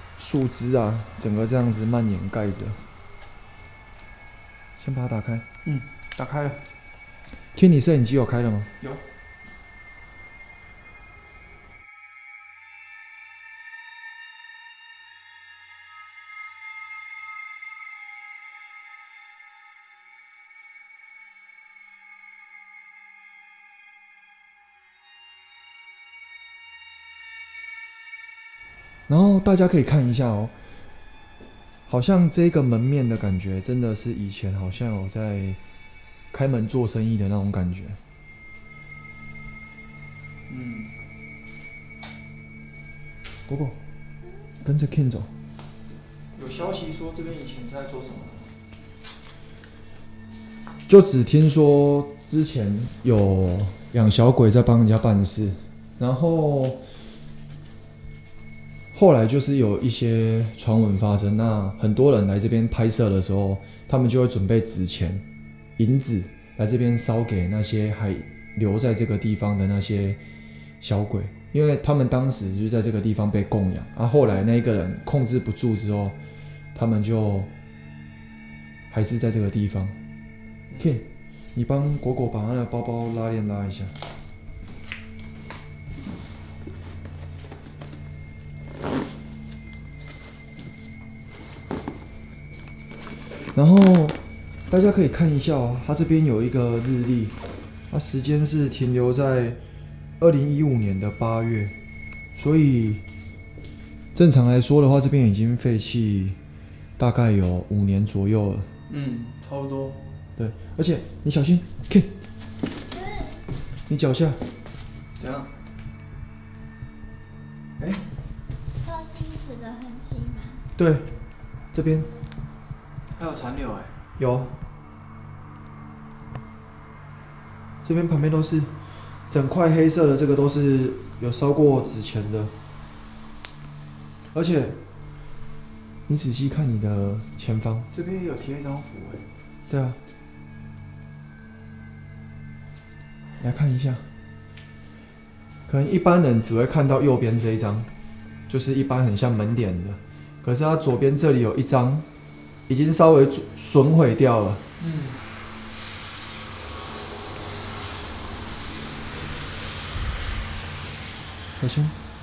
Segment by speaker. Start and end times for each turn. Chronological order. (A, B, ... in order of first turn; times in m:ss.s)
0:00.2-0:02.8 A
0:04.8-0:05.5 A
0:05.6-0:06.6 B
0:07.6-0:08.7 A
0:29.1-0:30.6 A
0:31.9-0:35.6 A
0:36.3-0:38.0 A
0:40.5-0:40.9 B
0:43.5-0:43.8 A
0:44.6-0:45.3 A
0:46.4-0:48.5 B
0:50.9-0:56.8 A
0:58.9-1:05.2 A
1:05.8-1:10.2 A
1:10.8-1:16.2 A
1:16.7-1:17.5 A
1:18.9-1:20.0 A
1:20.8-1:23.9 A
1:33.6-1:34.2 A
1:34.7-1:37.4 A
1:37.9-1:39.6 A
1:40.2-1:41.8 A
1:42.4-1:43.0 A
1:44.2-1:46.4 A
1:47.0-1:48.7 A
1:48.9-1:50.0 B
1:50.4-1:52.1 A
1:52.9-1:53.4 C
1:53.9-1:54.4 A
1:55.2-1:55.5 B
1:58.7-2:00.6 C
2:00.8-2:01.1 A
2:01.7-2:02.1 A
2:03.1-2:04.0 B
2:04.2-2:04.6 A
2:07.8-2:08.7 A
2:09.3-2:12.5 A
2:14.3-2:14.8 A
2:16.1-2:17.9 A
2:17.9-2:19.2 B
2:19.7-2:20.0 A
2:23.4-2:24.0 A
2:25.7-2:27.9 A
2:28.5-2:32.1 A
2:32.7-2:34.7 A
2:34.8-2:35.2 B
2:41.6-2:42.0 A